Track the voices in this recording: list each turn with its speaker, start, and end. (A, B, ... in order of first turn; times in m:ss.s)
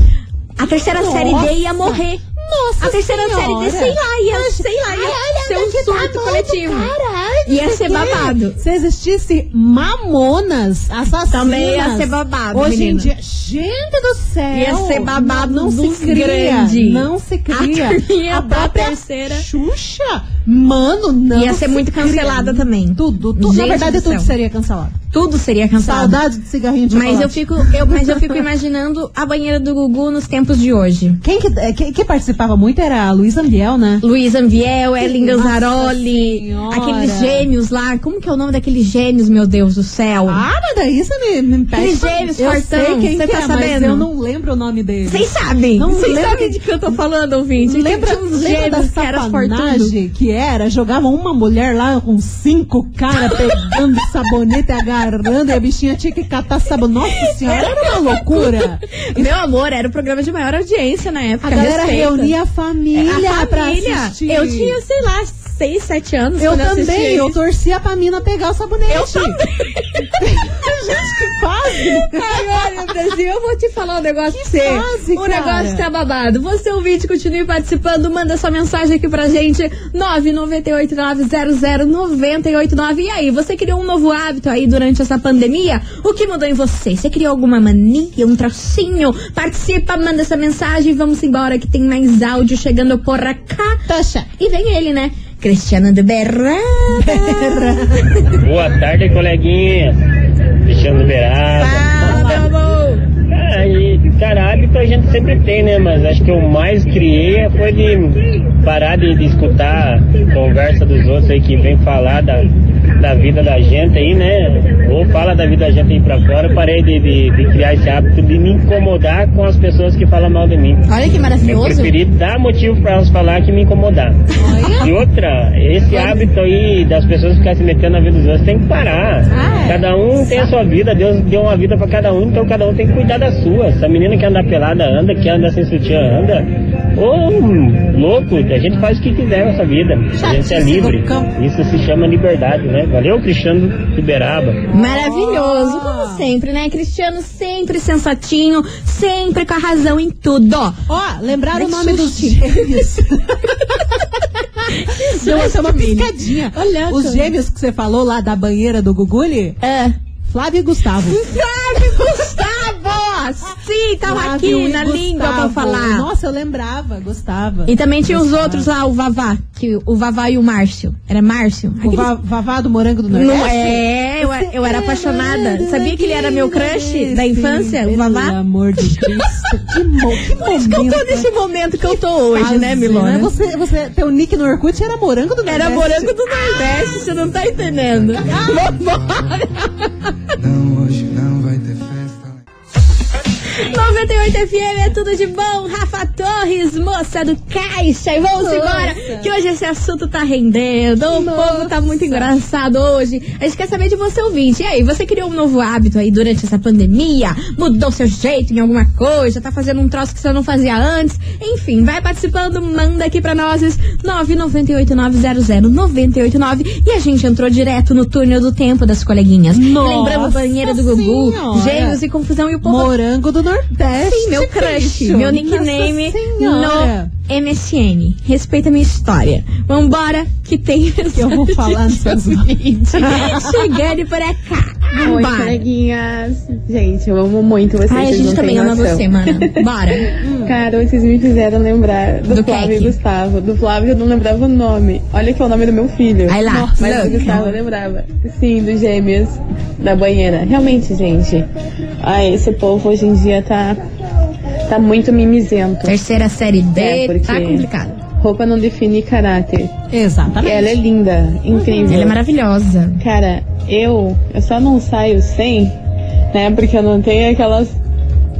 0:00.6-0:02.2 A
0:00.8-0:25.0 B
0:02.8-0:06.9 A
0:07.4-0:08.6 A
0:11.3-0:13.1 A
0:14.5-0:19.4 A
0:21.3-0:24.3 A
0:25.1-0:26.2 A
0:25.8-0:28.4 B
0:26.9-0:31.2 A
0:31.2-0:34.0 B
0:34.0-0:40.4 A
0:35.0-0:37.5 B
0:40.2-0:46.6 B
0:41.7-0:44.1 A
0:45.0-0:49.9 A
0:47.6-0:59.3 B
0:53.1-0:53.8 A
0:57.2-1:02.3 A
1:01.4-1:04.8 B
1:03.0-1:07.4 A
1:06.4-1:09.4 B
1:08.9-1:10.1 A
1:10.2-1:12.6 B
1:11.8-1:33.8 A
1:14.3-1:15.8 B
1:33.9-1:34.3 B
1:34.4-1:38.4 A
1:37.0-1:38.1 B
1:38.4-1:40.0 C
1:40.6-1:42.4 C
1:41.6-1:42.4 B
1:41.6-1:43.0 A
1:43.3-2:00.9 C
2:00.9-2:01.9 A
2:01.4-2:04.2 C
2:04.4-2:04.9 B
2:04.8-2:24.6 C
2:05.9-2:06.2 A
2:09.3-2:09.8 B
2:20.2-2:21.3 B
2:24.7-2:26.3 B
2:24.7-2:30.8 A
2:30.9-2:34.0 B
2:31.5-2:32.8 A
2:34.6-2:39.6 B
2:34.6-2:37.3 A
2:39.6-2:39.9 A
2:40.2-2:42.8 B
2:41.0-2:46.1 A
2:44.0-2:48.7 B
2:47.7-2:52.1 A
2:51.8-3:06.1 B
2:53.1-2:59.2 A
3:00.3-3:03.3 A
3:05.4-3:09.7 A
3:06.8-3:09.5 D
3:08.2-3:08.8 B
3:10.3-3:12.4 D
3:13.5-3:42.9 A
3:18.3-3:19.3 B
3:21.1-3:22.3 B
3:39.5-3:42.0 B
3:42.6-3:47.1 B
3:44.0-3:55.6 A
3:51.1-3:53.7 B
3:55.0-4:11.5 E
3:57.9-4:00.1 A
4:00.2-4:00.5 B
4:02.3-4:02.9 A
4:06.3-4:07.3 A
4:06.4-4:07.6 B
4:12.0-4:13.8 E
4:14.7-4:16.0 E
4:15.8-4:18.0 A
4:16.7-4:17.7 E
4:18.2-4:19.8 E
4:19.9-4:20.8 B
4:20.4-4:22.2 E
4:21.8-4:23.0 A
4:23.0-4:25.7 E
4:26.3-4:27.7 E